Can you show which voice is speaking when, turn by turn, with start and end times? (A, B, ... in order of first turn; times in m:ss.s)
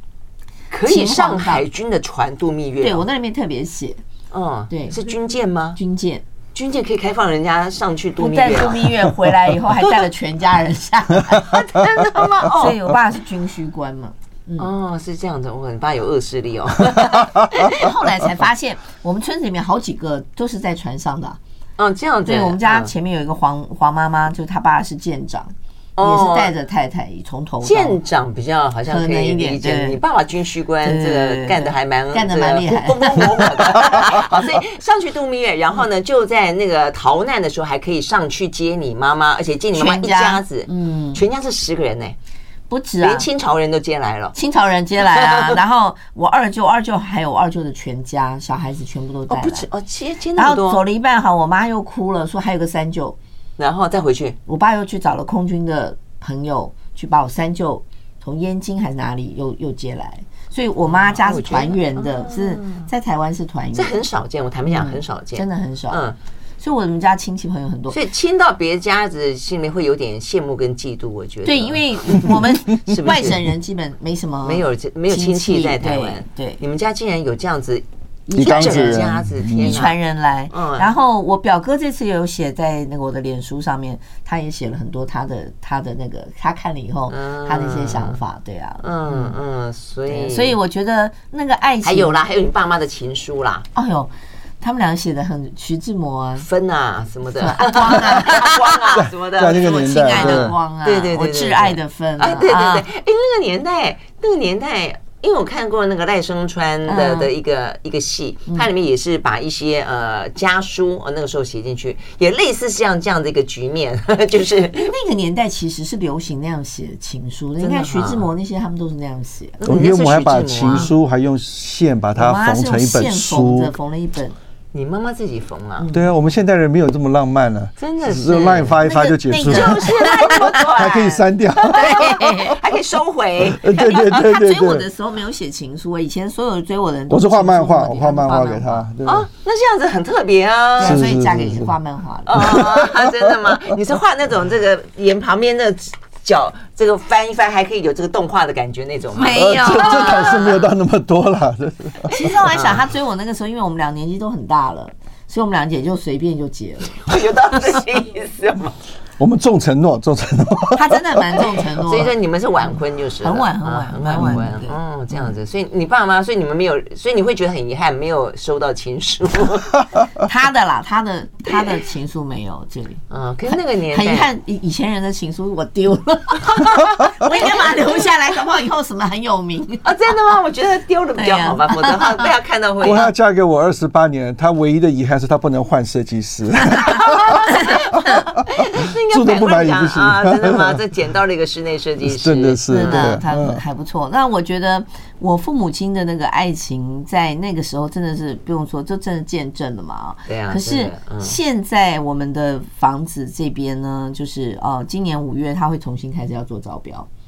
0:00.7-0:03.0 A
0:00.9-0:01.6 B
0:02.8-0:04.0 B
0:04.3-0:05.8 A
0:04.7-0:05.0 B
0:05.8-0:06.2 B
0:06.5-0:09.1 A
0:08.2-0:14.7 B
0:09.8-0:10.0 A
0:11.5-0:12.8 A
0:14.6-0:17.9 A
0:17.1-0:21.4 B
0:21.8-0:22.9 A
0:22.2-0:28.0 B
0:26.0-0:26.5 A
0:27.6-0:42.2 A
0:28.9-0:30.0 B
0:30.8-0:34.2 B
0:39.8-0:41.2 B
0:42.7-0:43.3 B
0:43.0-0:44.4 A
0:44.4-0:49.7 B
0:45.1-0:45.6 A
0:49.3-0:50.8 A
0:50.4-0:53.2 B
0:53.6-0:54.4 A
0:54.5-1:04.0 B
1:00.8-1:02.9 A
1:03.7-1:06.2 A
1:04.7-1:06.0 B
1:06.6-1:08.0 B
1:07.9-1:13.4 A
1:11.4-1:16.6 B
1:14.4-1:17.8 A
1:18.3-1:29.3 B
1:18.4-1:19.8 C
1:18.4-1:20.0 A
1:20.5-1:20.9 A
1:27.1-1:28.2 A
1:28.8-1:30.6 A
1:30.1-1:32.2 B
1:31.8-1:33.7 A
1:33.8-1:36.5 B
1:36.4-1:54.9 A
1:37.4-1:42.8 B
1:39.3-1:40.6 C
1:46.8-1:47.3 B
1:54.7-1:59.6 B
1:57.6-1:58.3 A
1:59.6-2:00.9 A
1:59.6-2:03.7 C
2:02.2-2:04.4 B
2:04.7-2:05.9 A
2:05.8-2:06.1 B
2:05.9-2:12.5 C
2:07.8-2:08.8 A
2:08.8-2:10.6 B
2:09.4-2:13.7 A
2:11.7-2:12.6 B
2:13.4-2:14.9 C
2:13.7-2:18.9 B
2:17.1-2:19.3 C
2:19.0-2:21.1 A
2:20.8-2:22.8 B
2:20.8-2:21.7 C
2:22.3-2:30.5 A
2:22.3-2:23.8 C
2:29.1-2:30.5 B
2:29.3-2:32.2 C
2:32.1-2:37.3 B
2:32.4-2:32.9 A
2:37.0-2:38.8 A
2:39.2-2:41.4 C
2:40.7-2:44.8 B
2:41.8-2:49.8 A
2:50.2-2:59.9 B
2:53.1-2:54.3 A
2:59.8-3:03.1 A
3:01.2-3:02.3 B
3:02.8-3:07.8 C
3:07.0-3:07.9 A
3:08.5-3:13.2 A
3:09.1-3:10.8 C
3:12.0-3:13.6 C
3:12.7-3:27.1 B
3:20.3-3:21.4 A